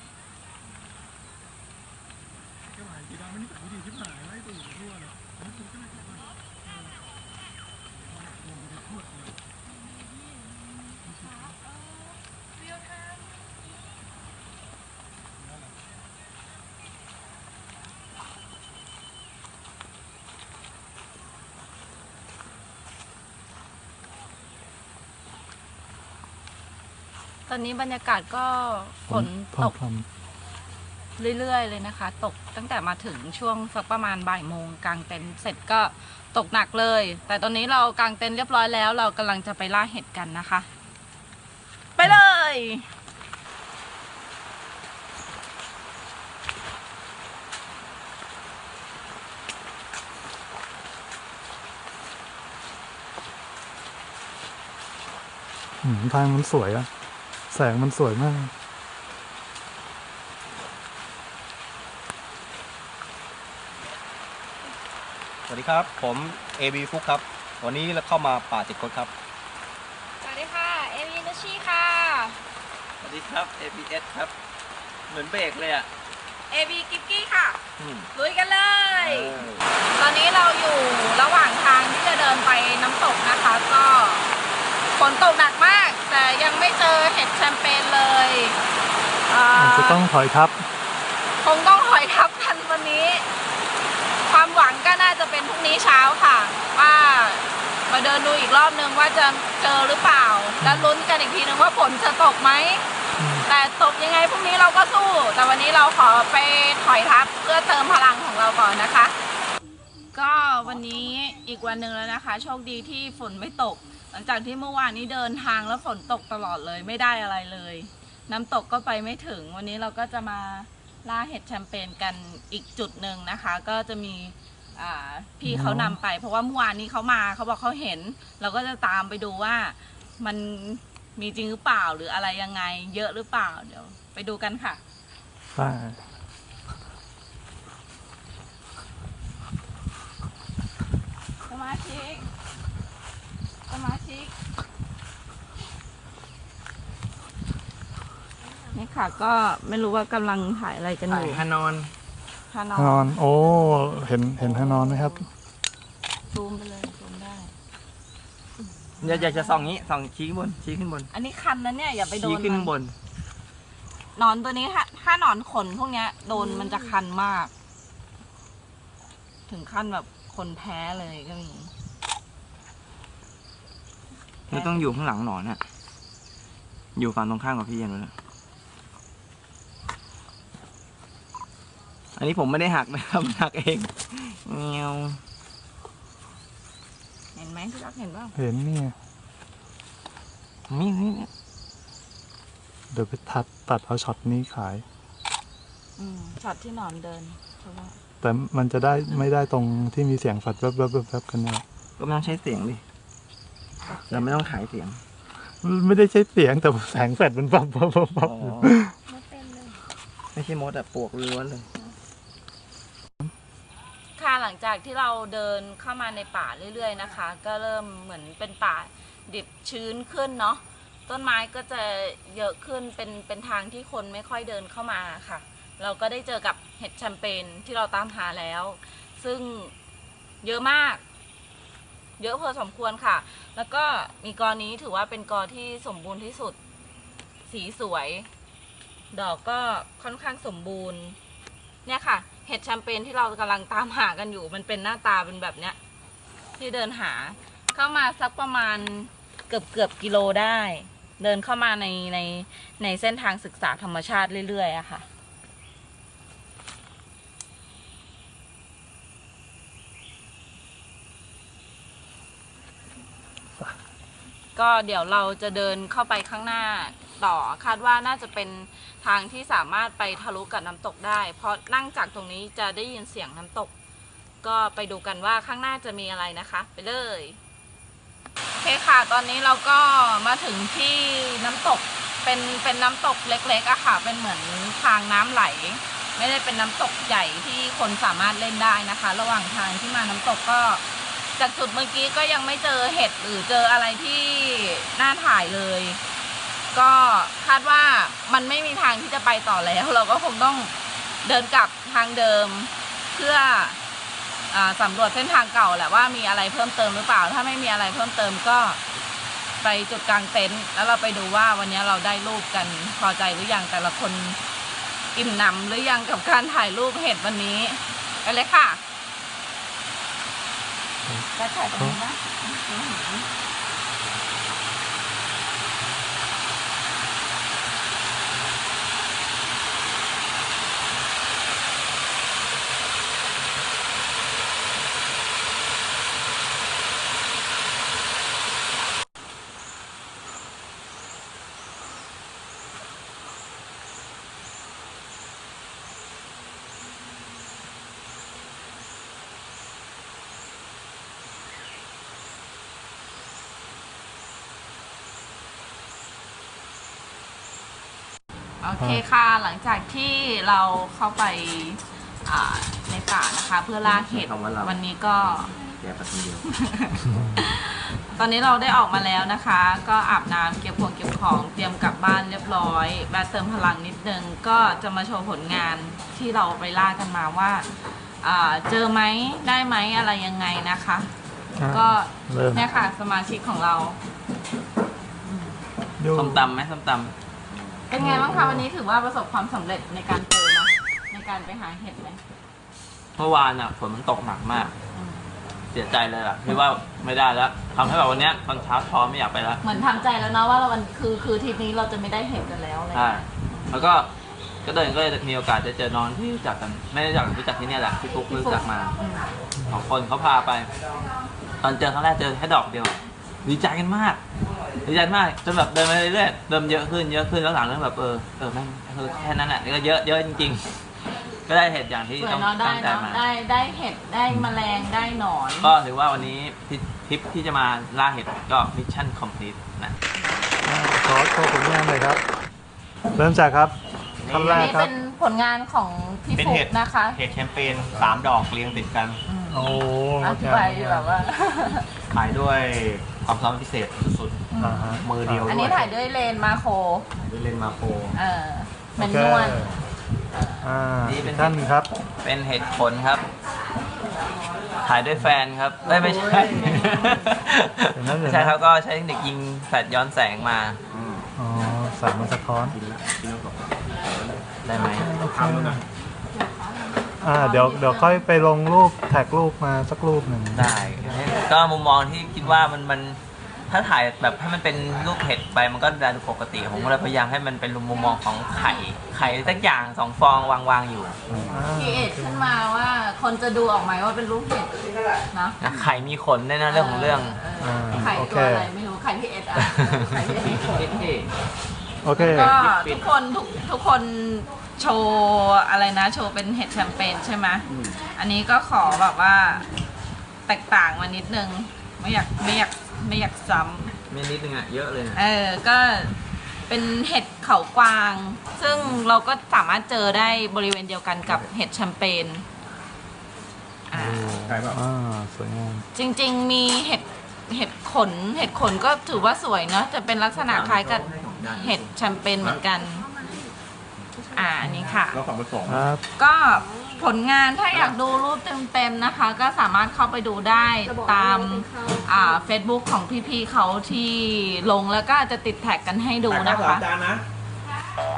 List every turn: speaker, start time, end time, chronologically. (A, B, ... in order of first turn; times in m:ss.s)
0:27.5-0:29.7 A
0:29.1-0:30.0 B
0:31.2-0:40.7 A
0:42.0-0:42.9 A
0:55.8-0:56.9 B
0:57.5-0:58.5 B
1:05.5-1:09.1 C
1:10.2-1:12.4 A
1:13.0-1:14.3 D
1:15.1-1:15.9 D
1:16.5-1:17.6 A
1:18.1-1:19.4 A
1:19.0-1:19.6 D
1:20.0-1:24.3 A
1:24.9-1:28.6 A
1:29.2-1:30.0 A
1:29.5-1:30.6 B
1:31.4-1:33.2 A
1:34.2-1:42.8 A
1:40.6-1:40.9 B
1:43.2-1:43.4 B
1:43.5-1:49.1 A
1:50.1-2:14.8 A
2:05.4-2:06.0 B
2:15.5-2:16.0 B
2:21.4-2:22.3 A
2:23.7-2:24.3 A
2:28.7-2:31.4 A
2:31.1-2:31.4 D
2:31.1-2:31.9 C
2:32.5-2:33.2 A
2:32.8-2:35.2 B
2:34.4-2:35.3 A
2:36.3-2:37.5 A
2:39.0-2:41.1 D
2:41.1-2:42.7 A
2:42.2-2:42.9 D
2:44.2-2:47.5 A
2:49.5-2:51.7 A
2:54.5-2:54.9 A
2:54.5-2:55.6 D
2:57.0-2:58.1 D
3:02.2-3:05.2 D
3:07.3-3:08.3 A
3:08.4-3:08.9 B
3:10.7-3:11.3 D
3:12.9-3:14.8 B
3:16.0-3:18.0 A
3:18.2-3:21.6 B
3:22.0-3:22.8 D
3:24.0-3:25.0 D
3:25.6-3:28.9 B
3:28.2-3:28.7 D
3:29.1-3:29.7 A
3:30.3-3:31.7 D
3:34.2-3:49.7 A
3:50.4-3:51.0 A
3:52.2-3:56.6 A
3:57.4-3:58.3 A
3:59.1-4:01.2 A
4:01.8-4:05.8 A
4:06.6-4:15.1 A
4:24.5-4:33.7 A
4:34.4-4:37.4 A
4:38.6-4:50.8 A
4:51.4-4:56.0 A
4:56.7-5:00.7 A
5:01.2-5:03.8 A
5:04.5-5:08.8 A
5:09.6-5:14.4 A
5:15.1-5:18.8 A
5:21.0-5:22.0 B
5:21.3-5:23.3 A
5:58.6-6:05.5 A
6:03.8-6:06.5 D
6:06.4-6:17.6 A
6:07.1-6:07.4 B
6:18.2-6:21.1 A
6:21.6-6:22.6 B
6:21.7-6:24.0 A
6:25.2-6:25.6 A
6:26.0-6:26.4 B
6:26.1-6:27.1 D
6:27.9-6:32.2 A
6:28.0-6:28.6 B
6:33.2-6:34.7 D
6:34.9-6:35.2 A
6:35.7-6:39.6 D
6:39.6-6:43.8 A
6:42.9-6:44.1 D
6:44.6-6:48.9 D
6:48.3-6:49.3 A
6:49.7-6:50.7 D
6:51.6-6:54.2 D
6:54.8-7:00.6 D
7:01.4-7:03.2 D
7:02.2-7:05.7 A
7:05.6-7:10.0 D
7:10.2-7:10.4 A
7:10.6-7:12.2 B
7:13.1-7:13.7 B
7:14.2-7:14.7 C
7:14.3-7:14.9 B
7:14.5-7:17.2 A
7:16.3-7:19.2 C
7:19.2-7:21.9 A
7:19.5-7:21.1 B
7:22.1-7:24.4 C
7:24.5-7:27.0 A
7:24.6-7:25.6 B
7:25.0-7:25.9 C
7:27.2-7:28.2 C
7:28.1-7:29.7 A
7:29.0-7:29.7 B
7:30.6-7:31.9 B
7:31.0-7:31.6 D
7:32.2-7:33.2 D
7:34.8-7:40.8 D
7:36.2-7:36.9 C
7:37.9-7:38.6 B
7:40.9-7:41.3 C
7:41.4-7:42.8 B
7:42.7-7:45.8 C
7:44.6-7:45.1 D
7:45.0-7:45.8 B
7:46.3-7:48.3 A
7:47.2-7:51.2 B
7:50.5-8:01.2 D
8:01.3-8:02.6 B
8:01.7-8:04.8 A
8:05.3-8:05.6 A
8:05.6-8:07.4 D
8:06.7-8:11.0 A
8:07.6-8:08.7 B
8:09.8-8:11.3 D
8:12.0-8:12.6 B
8:12.1-8:19.7 A
8:12.2-8:13.0 D
8:20.4-8:23.9 A
8:24.1-8:25.2 D
8:25.1-8:26.2 A
8:26.7-8:32.4 A
8:33.9-8:34.2 A
8:33.9-8:35.8 B
8:34.4-8:34.8 C
8:35.9-8:43.1 A
8:40.3-8:41.8 D
8:44.3-8:45.2 A
8:45.1-8:45.9 C
8:45.6-8:46.0 B
8:46.2-8:56.8 A
8:56.3-8:57.2 C